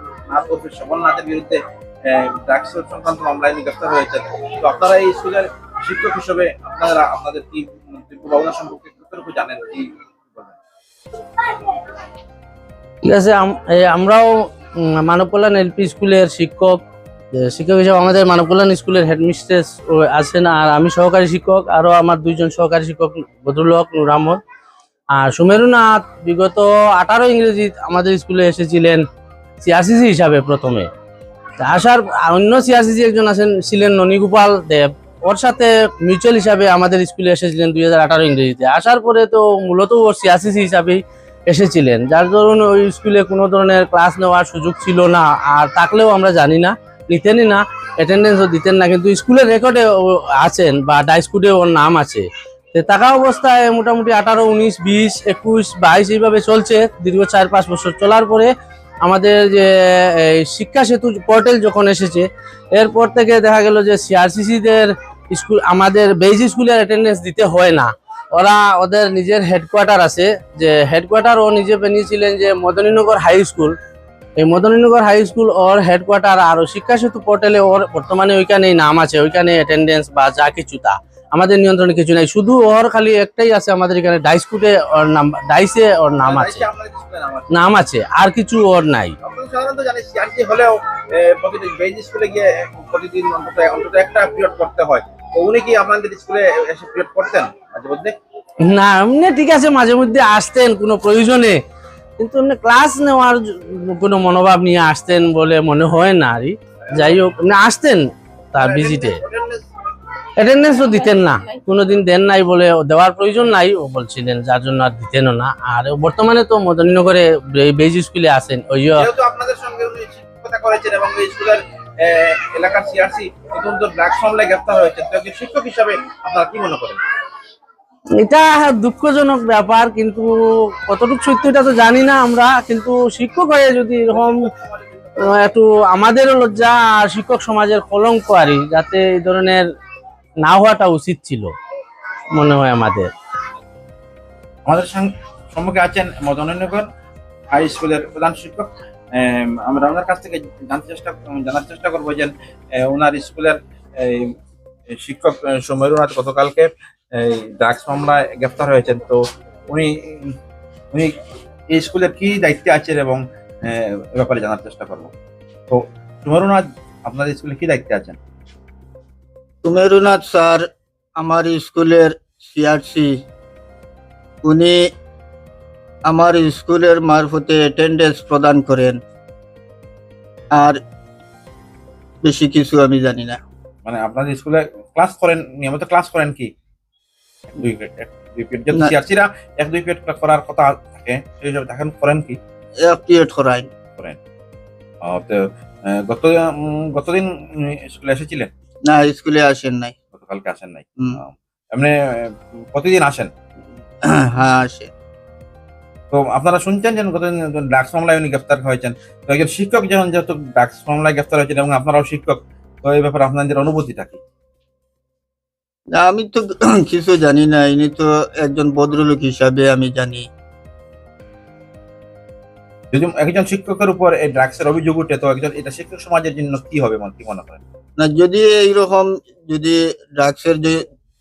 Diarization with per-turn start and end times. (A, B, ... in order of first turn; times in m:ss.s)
0:00.3-0:10.6 A
0:13.0-0:14.3 B
0:14.8-0:16.8 B
0:17.4-0:24.4 B
0:25.2-0:29.0 B
0:29.6-0:30.9 B
0:31.6-0:58.5 B
0:59.0-1:13.8 B
1:14.4-1:26.6 B
1:26.2-1:27.5 A
1:27.5-1:29.2 B
1:29.2-1:38.2 A
1:38.6-1:41.6 B
1:42.2-1:49.2 B
1:48.6-1:49.6 A
1:50.4-1:59.1 B
1:59.0-2:07.0 A
2:08.2-2:10.3 B
2:10.9-2:14.5 B
2:14.1-2:14.8 A
2:15.2-2:19.6 B
2:20.4-2:21.5 B
2:22.3-2:23.1 B
2:24.7-2:26.9 A
2:27.5-2:34.3 A
2:34.9-2:40.3 A
2:41.7-2:45.1 A
2:45.7-2:48.2 A
2:49.6-2:50.7 C
2:51.2-2:53.2 C
2:54.4-2:54.8 C
2:56.0-2:59.0 C
3:00.5-3:00.8 C
3:02.2-3:03.4 C
3:03.8-3:06.5 A
3:07.6-3:12.4 A
3:12.8-3:13.7 C
3:15.0-3:18.5 A
3:18.9-3:19.9 C
3:20.1-3:21.9 A
3:22.7-3:23.3 A
3:24.1-3:24.9 C
3:26.1-3:34.2 A
3:36.0-3:40.3 C
3:42.9-3:47.6 A
3:48.0-3:50.8 C